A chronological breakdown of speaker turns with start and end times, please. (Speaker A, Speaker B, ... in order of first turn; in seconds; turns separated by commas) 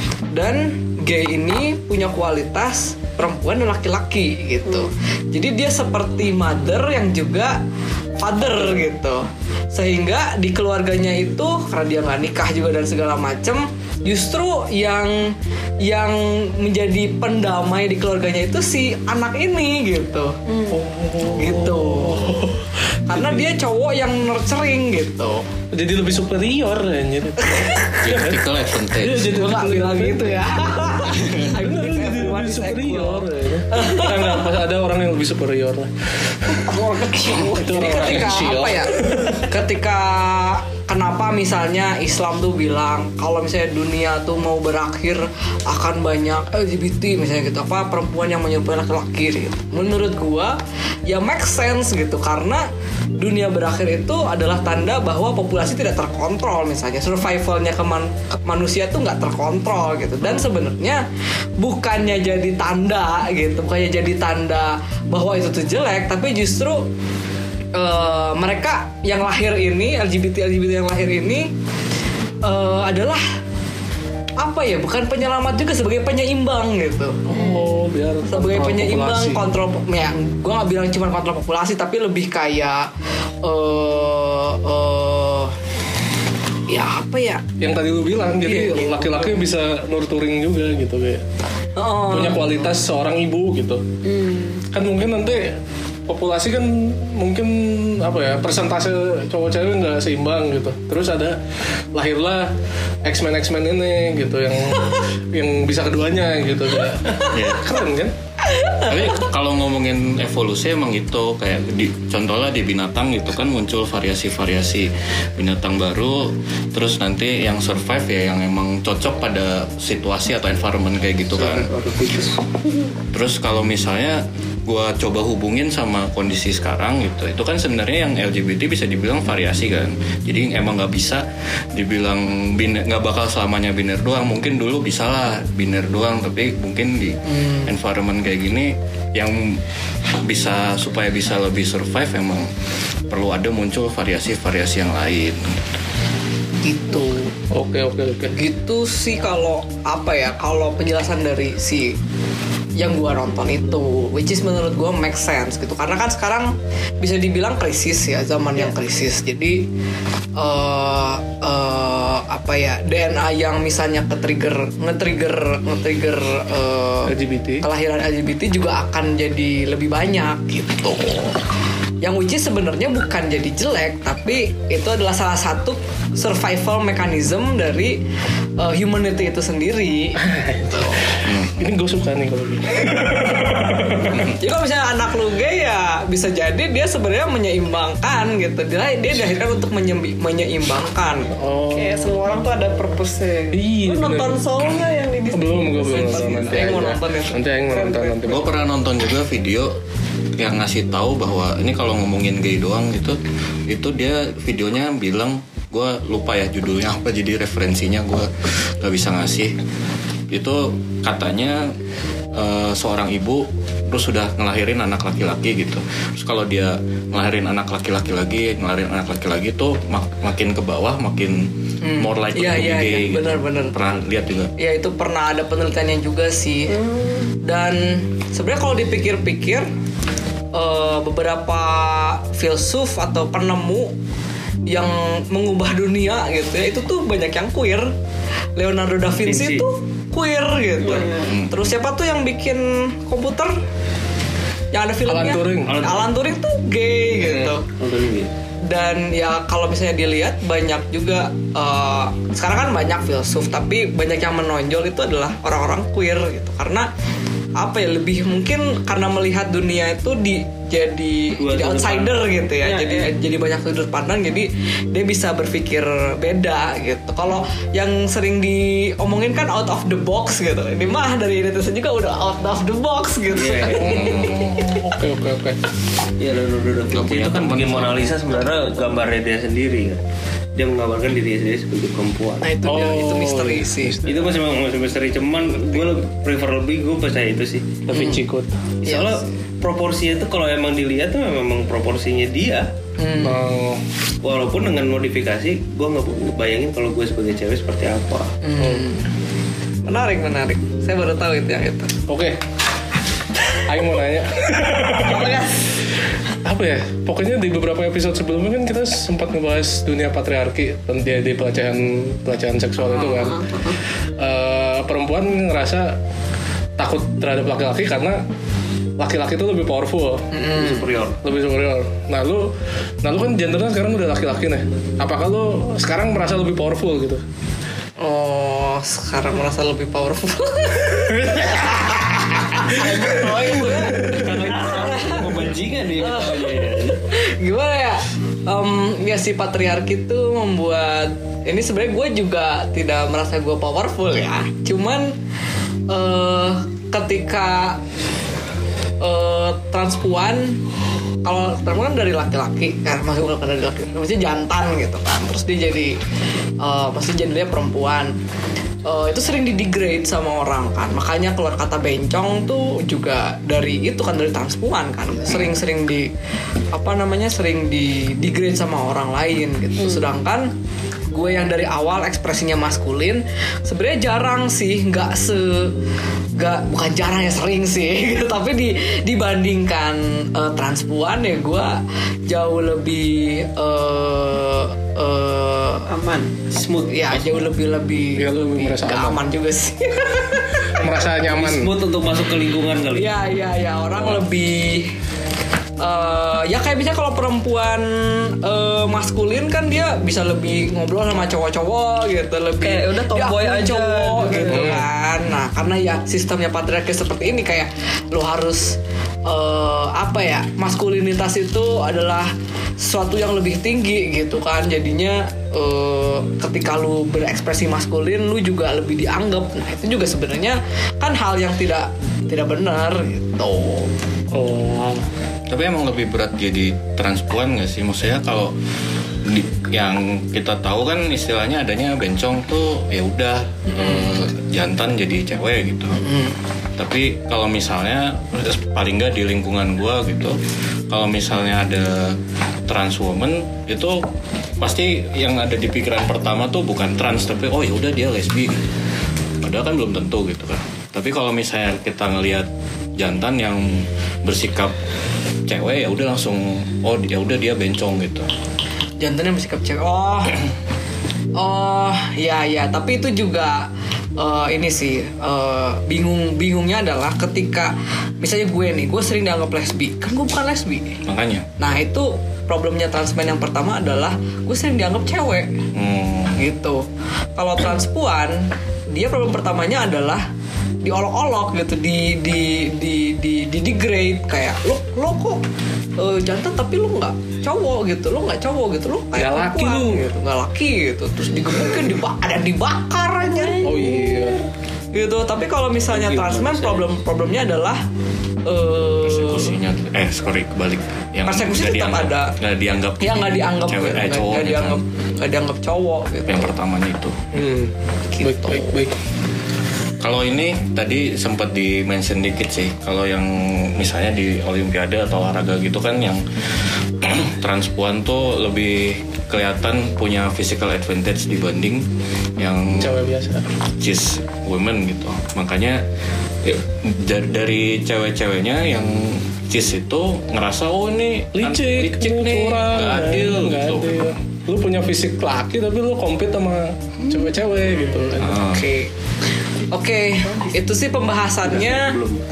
Speaker A: 0.3-7.6, Speaker A: 8.2-20.3, Speaker B: 20.7-23.4, Speaker A: 21.3-22.4, Speaker A: 23.1-25.4, Speaker B: 25.7-30.9, Speaker A: 27.4-28.0, Speaker C: 28.0-29.4, Speaker A: 29.4-34.5, Speaker B: 31.5-35.9, Speaker A: 36.7-52.6, Speaker B: 37.4-39.5, Speaker A: 53.2-61.0, Speaker A: 61.6-66.9, Speaker A: 67.7-71.5, Speaker A: 72.4-73.2, Speaker A: 74.4-77.2, Speaker B: 77.3-79.4, Speaker A: 78.3-82.9, Speaker A: 83.4-85.5, Speaker A: 86.7-87.5, Speaker B: 87.6-91.2, Speaker A: 88.4-89.4, Speaker A: 91.8-92.7, Speaker B: 92.1-93.8, Speaker D: 94.0-94.6, Speaker B: 94.7-95.6, Speaker B: 96.1-101.4, Speaker B: 101.9-102.5, Speaker B: 103.0-108.1, Speaker C: 107.3-107.6, Speaker C: 108.8-121.7, Speaker D: 121.6-122.9, Speaker C: 123.1-139.6, Speaker A: 137.3-137.7, Speaker C: 140.2-142.5, Speaker C: 143.1-145.6, Speaker A: 146.6-147.3, Speaker B: 147.5-148.4, Speaker A: 148.3-152.0, Speaker A: 152.8-159.7, Speaker A: 160.4-171.3, Speaker B: 167.1-167.7, Speaker A: 172.0-178.0, Speaker A: 178.6-181.0, Speaker B: 180.2-184.3, Speaker C: 181.2-181.7, Speaker A: 184.2-191.3, Speaker B: 191.4-192.1, Speaker D: 191.7-196.9, Speaker B: 193.5-194.4, Speaker B: 195.3-198.5, Speaker A: 195.9-197.4, Speaker D: 197.7-198.4, Speaker C: 198.3-199.7, Speaker C: 200.4-209.6, Speaker C: 210.3-211.8, Speaker C: 212.3-224.5, Speaker A: 221.8-223.8, Speaker A: 224.6-226.8, Speaker A: 227.4-229.7, Speaker A: 230.5-233.9, Speaker A: 234.7-237.9, Speaker A: 238.6-243.6, Speaker E: 239.2-239.6, Speaker D: 240.8-241.2, Speaker C: 241.2-241.6, Speaker A: 244.7-247.6, Speaker B: 245.1-245.8, Speaker E: 245.7-246.1, Speaker B: 247.2-247.5, Speaker E: 247.8-248.3, Speaker A: 248.7-256.9, Speaker A: 257.6-274.2, Speaker E: 261.4-263.1, Speaker E: 273.3-274.0, Speaker B: 273.7-275.6, Speaker C: 273.9-274.4, Speaker E: 276.2-280.0, Speaker C: 276.9-278.3, Speaker E: 280.6-282.5, Speaker A: 282.4-284.0, Speaker B: 282.6-284.3, Speaker E: 284.1-288.0, Speaker A: 285.5-285.8, Speaker B: 287.9-288.6, Speaker A: 287.9-288.2, Speaker E: 288.8-292.7, Speaker A: 288.9-289.3, Speaker A: 293.0-293.4, Speaker B: 293.2-293.8, Speaker E: 294.2-298.4, Speaker A: 298.4-299.1, Speaker B: 298.6-298.9, Speaker A: 299.9-301.9, Speaker B: 302.1-302.4, Speaker B: 303.7-305.4, Speaker D: 304.9-305.6, Speaker B: 306.4-313.5, Speaker A: 312.9-313.4, Speaker D: 313.4-313.8, Speaker B: 314.2-316.0, Speaker B: 316.8-318.2, Speaker B: 319.0-320.3, Speaker A: 320.3-320.9, Speaker E: 320.5-321.2, Speaker B: 321.2-322.5, Speaker B: 323.0-327.2, Speaker A: 328.0-335.4, Speaker D: 332.6-334.1, Speaker E: 334.0-337.0, Speaker A: 336.0-345.1, Speaker A: 345.9-347.8, Speaker A: 349.0-350.6, Speaker A: 351.2-356.0, Speaker A: 356.6-358.2, Speaker A: 358.9-366.1, Speaker A: 366.7-370.5, Speaker A: 371.1-375.8, Speaker A: 376.4-385.9, Speaker D: 385.9-386.3, Speaker E: 386.5-387.1, Speaker A: 386.9-390.8, Speaker B: 388.2-389.2, Speaker B: 390.8-391.7, Speaker E: 391.2-393.1, Speaker A: 392.9-394.9, Speaker A: 395.8-423.9, Speaker D: 402.6-404.8, Speaker B: 404.5-404.8, Speaker B: 424.3-425.1, Speaker C: 425.5-428.5, Speaker C: 429.2-436.0, Speaker A: 433.8-434.1, Speaker A: 436.0-436.4, Speaker C: 436.8-440.4, Speaker C: 440.9-444.1, Speaker C: 444.6-448.6, Speaker C: 449.4-454.8, Speaker C: 455.5-458.3, Speaker A: 459.0-460.4, Speaker A: 461.4-471.0, Speaker C: 471.1-471.5, Speaker A: 471.6-475.5, Speaker C: 475.7-476.4, Speaker A: 476.4-476.9, Speaker A: 477.4-480.2, Speaker A: 480.8-485.4, Speaker A: 486.0-493.8, Speaker B: 489.1-490.1, Speaker D: 493.2-494.4, Speaker B: 493.6-494.4, Speaker A: 494.9-497.8, Speaker E: 495.9-496.9, Speaker A: 498.4-499.5, Speaker C: 499.0-504.8, Speaker A: 501.3-502.3, Speaker A: 503.0-506.5, Speaker C: 506.3-507.2, Speaker B: 507.3-508.9, Speaker A: 508.1-508.8, Speaker C: 510.0-516.2, Speaker C: 517.0-523.0, Speaker B: 522.8-523.5, Speaker C: 523.8-525.8, Speaker C: 526.4-534.0, Speaker B: 531.3-538.4, Speaker A: 537.6-538.9, Speaker C: 538.2-538.6, Speaker A: 539.7-542.0, Speaker E: 541.5-542.2